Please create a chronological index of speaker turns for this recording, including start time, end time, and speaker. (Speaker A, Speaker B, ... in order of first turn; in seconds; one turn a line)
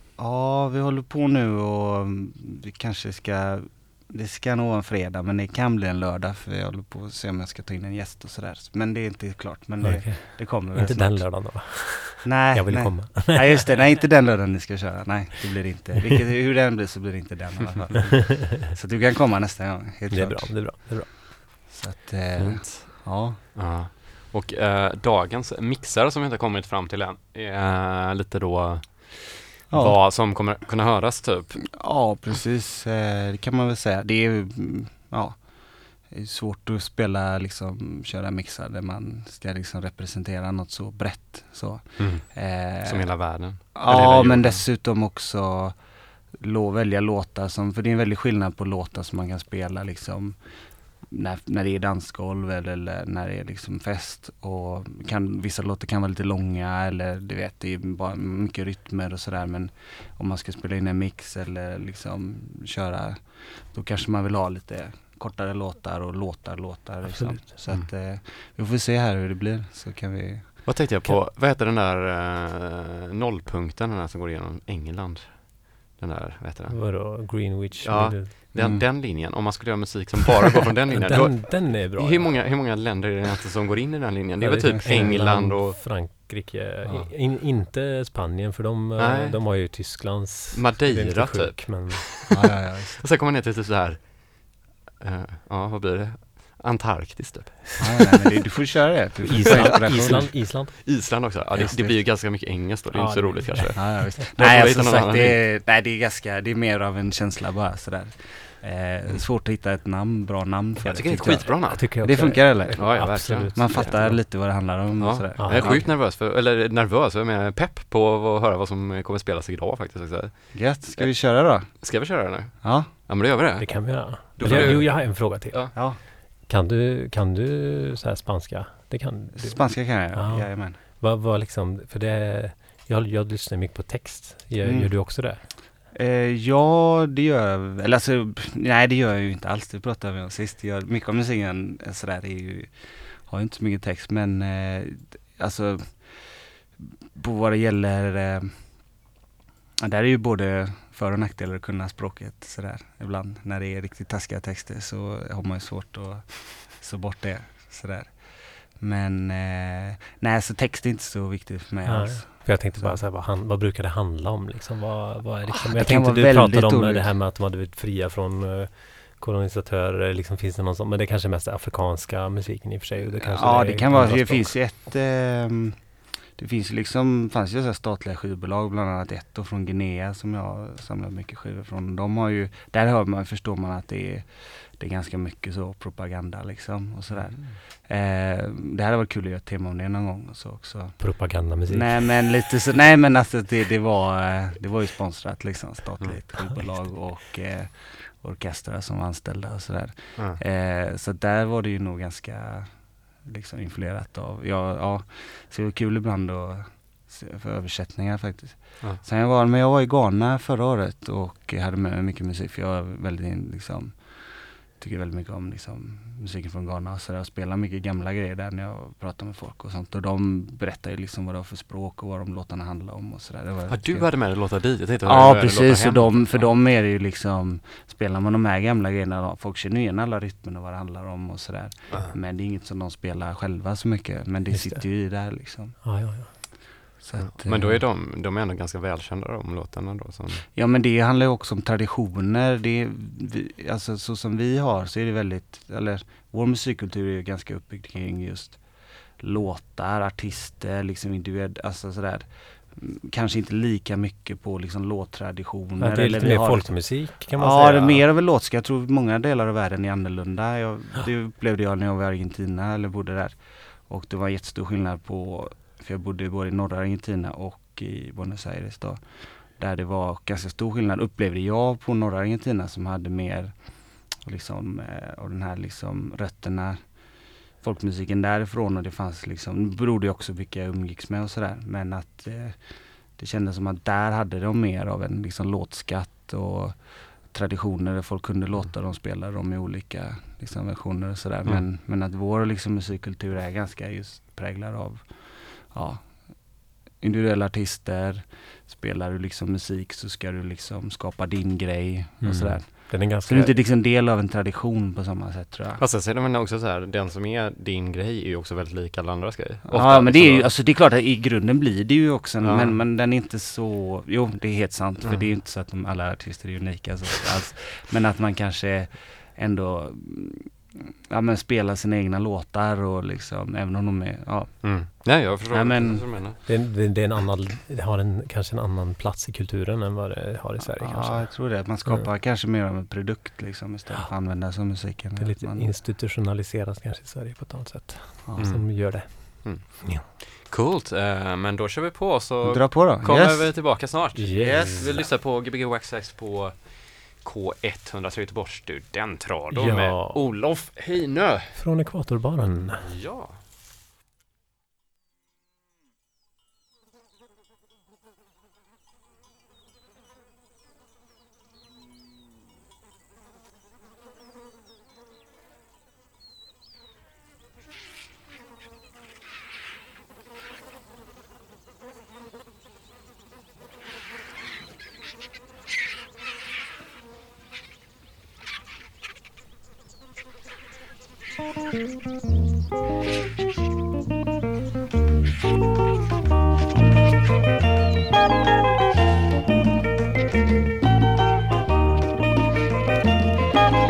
Speaker A: 0.2-21.1
Speaker B: 9.8-13.9
Speaker B: 20.1-21.7
Speaker A: 21.7-23.4
Speaker C: 22.5-31.8
Speaker A: 29.7-30.0
Speaker A: 31.7-70.6
Speaker C: 42.0-44.6
Speaker B: 67.0-67.5
Speaker C: 70.7-85.8
Speaker B: 76.7-78.3
Speaker A: 78.5-78.8
Speaker B: 80.9-82.5
Speaker B: 84.4-92.1
Speaker A: 84.8-85.2
Speaker C: 89.0-89.8
Speaker C: 90.5-92.5
Speaker A: 92.3-93.0
Speaker C: 93.0-98.2
Speaker A: 97.8-102.0
Speaker B: 99.2-100.8
Speaker C: 99.6-105.4
Speaker B: 102.9-104.1
Speaker A: 103.8-115.9
Speaker C: 110.8-114.2
Speaker B: 111.2-114.2
Speaker C: 115.0-125.7
Speaker B: 115.4-115.9
Speaker A: 120.5-122.1
Speaker A: 122.6-122.9
Speaker B: 123.6-135.4
Speaker A: 124.4-125.2
Speaker A: 125.7-126.0
Speaker A: 129.3-130.8
Speaker A: 134.6-149.0
Speaker A: 149.8-163.0
Speaker B: 161.9-174.6
Speaker A: 165.5-167.1
Speaker A: 173.3-237.8
Speaker C: 187.1-187.6
Speaker B: 191.0-192.1
Speaker C: 223.7-226.5
Speaker B: 234.5-234.9
Speaker B: 235.8-236.7
Speaker C: 237.2-240.4
Speaker A: 240.5-305.8
Speaker B: 255.8-258.1
Speaker B: 302.2-303.6
Speaker C: 305.8-310.5
Speaker A: 309.7-326.1
Speaker C: 312.4-312.8
Speaker C: 324.6-326.4
Speaker B: 326.4-332.1
Speaker A: 330.6-335.8
Speaker B: 335.2-340.0
Speaker A: 338.3-338.5
Speaker C: 338.4-351.6
Speaker A: 342.4-343.5
Speaker B: 344.1-345.1
Speaker B: 349.5-350.3
Speaker B: 351.5-352.9
Speaker C: 352.8-353.4